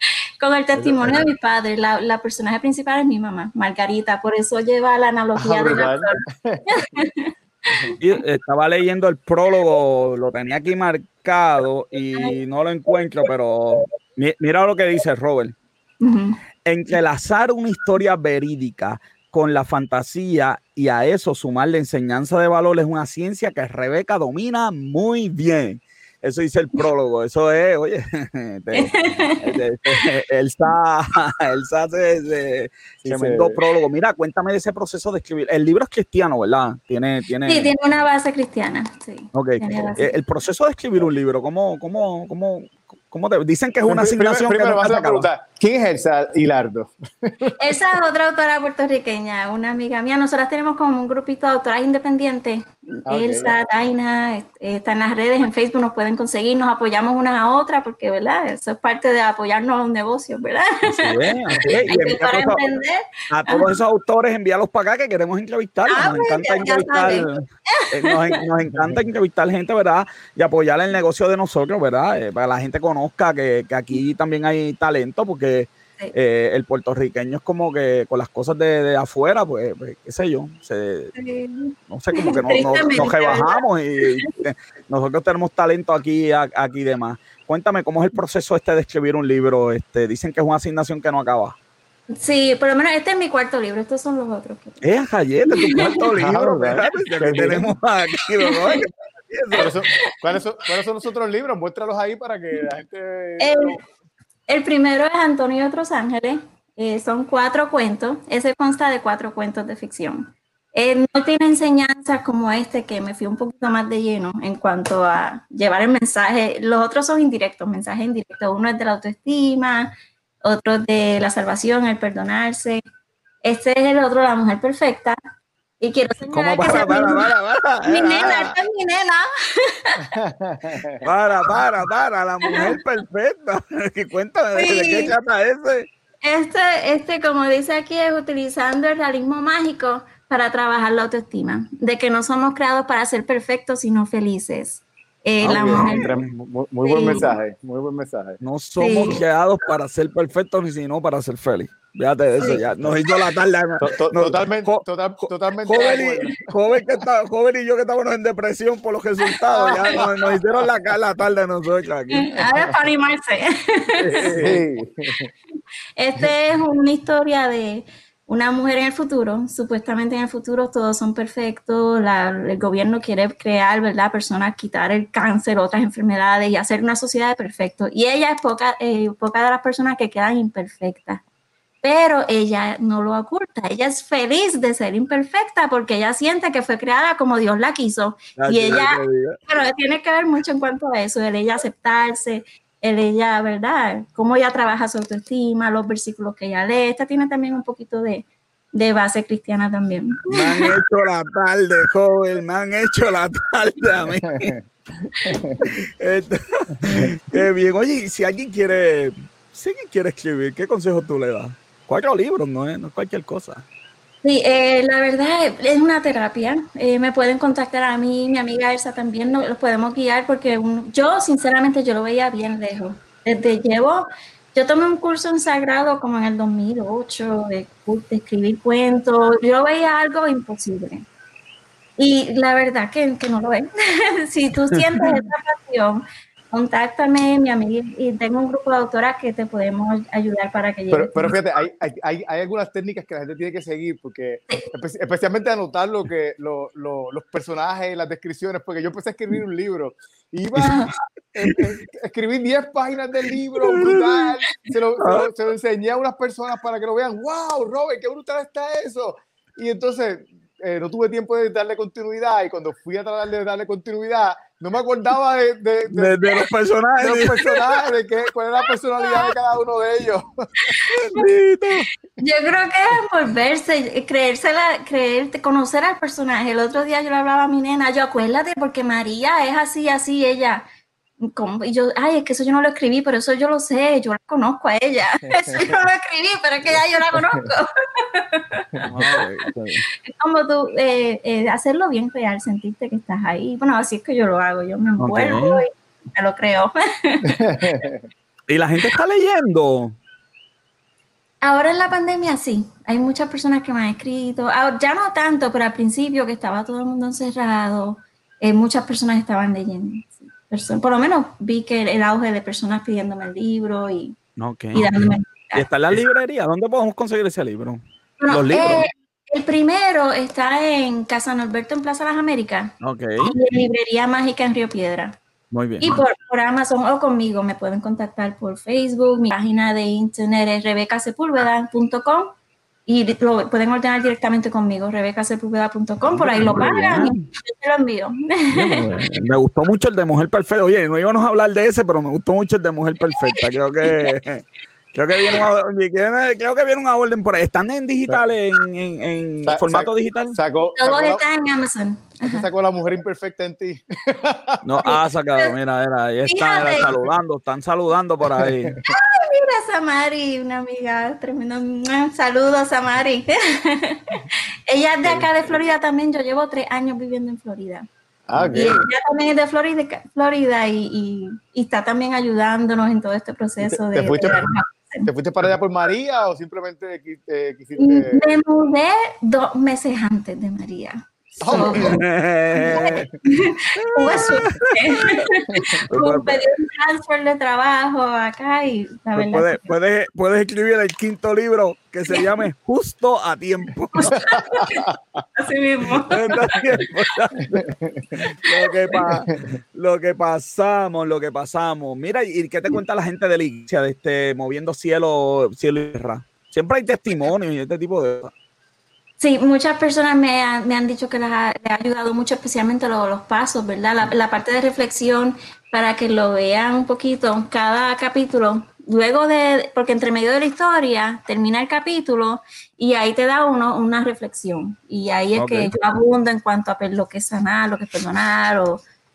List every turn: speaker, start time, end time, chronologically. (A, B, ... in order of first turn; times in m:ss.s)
0:00.4-0:07.3 A
0:00.8-0:01.2 B
0:05.4-0:06.7 B
0:08.0-0:15.6 C
0:16.0-0:16.4 A
0:16.7-0:37.7 C
0:28.7-0:29.4 A
0:33.0-0:33.6 B
0:37.5-0:40.2 A
0:39.3-0:45.3 C
0:43.9-0:47.7 B
0:47.6-1:03.7 A
0:53.1-0:53.5 B
1:00.9-1:02.6 C
1:03.3-1:21.1 C
1:05.9-1:08.4 A
1:21.2-1:24.1 A
1:21.9-1:31.6 C
1:32.1-1:34.9 A
1:34.8-1:39.7 C
1:35.5-1:36.0 A
1:36.2-1:37.7 B
1:38.4-1:38.8 A
1:39.6-1:40.1 A
1:39.6-1:43.8 B
1:43.4-1:43.8 A
1:44.5-1:59.9 A
2:00.4-2:02.8 A
2:03.4-2:05.2 A
2:05.8-2:07.3 A
2:06.3-2:08.6 C
2:07.8-2:10.1 A
2:10.1-2:11.0 B
2:11.0-2:15.9 C
2:12.5-2:12.7 A
2:14.6-2:15.1 A
2:16.2-2:26.1 A
2:25.4-2:26.3 C
2:25.4-2:28.4 B
2:26.8-2:27.4 A
2:28.4-2:42.4 C
2:28.8-2:29.2 A
2:32.4-2:33.0 B
2:33.8-2:36.5 B
2:39.5-2:40.0 A
2:39.8-2:40.1 B
2:42.1-2:44.3 A
2:44.0-2:44.6 C
2:44.3-2:45.3 B
2:46.0-3:01.2 A
3:01.8-3:20.7 A
3:08.4-3:09.4 C
3:20.3-3:24.5 C
3:24.4-3:25.7 B
3:25.7-3:33.6 C
3:34.2-3:51.0 A
3:52.0-4:01.3 A
3:54.7-3:55.2 C
4:00.9-4:26.3 B
4:10.6-4:11.0 C
4:13.6-4:14.2 C
4:15.0-4:15.3 C
4:25.9-4:27.6 C
4:27.0-4:30.3 B
4:29.0-4:29.3 A
4:30.7-4:31.2 A
4:30.9-4:31.9 C
4:32.2-4:40.6 A
4:41.2-4:49.2 A
4:45.3-4:45.7 B
4:48.9-4:49.8 C
4:50.0-4:57.9 A
4:55.0-4:55.6 C
4:57.3-4:58.1 B
4:58.5-5:00.0 C
5:01.4-5:14.2 A
5:14.4-5:18.8 C
5:14.7-5:15.7 A
5:18.2-5:25.2 A
5:22.8-5:23.4 C
5:25.5-5:26.0 C
5:25.8-5:32.3 A
5:32.9-5:38.9 A
5:36.1-5:37.3 C
5:38.5-5:50.4 C
5:43.1-5:44.1 A
5:45.2-5:45.4 A
5:49.4-5:51.2 B
5:50.8-5:52.4 A
5:52.3-5:54.6 B
5:54.6-5:58.8 C
5:54.8-5:55.6 A
5:56.2-5:56.9 A
5:58.4-5:58.8 B
5:58.9-6:07.9 A
6:05.0-6:05.3 B
6:08.3-6:08.9 B
6:08.3-6:08.7 C
6:08.5-6:15.1 A
6:13.6-6:14.5 B
6:15.0-6:18.3 B
6:17.8-6:22.0 A
6:21.4-6:22.0 B
6:21.5-6:23.1 C
6:22.6-6:29.7 A
6:22.7-6:23.0 B
6:23.8-6:25.2 C
6:25.5-6:25.8 B
6:25.9-6:26.4 C
6:29.2-6:34.4 C
6:34.0-6:36.8 A
6:34.3-6:34.9 B
6:36.0-6:37.6 C
6:37.5-6:38.3 B
6:38.2-6:48.3 C
6:38.6-6:39.0 A
6:39.0-6:39.5 B
6:49.2-7:08.8 A
7:05.4-7:05.7 C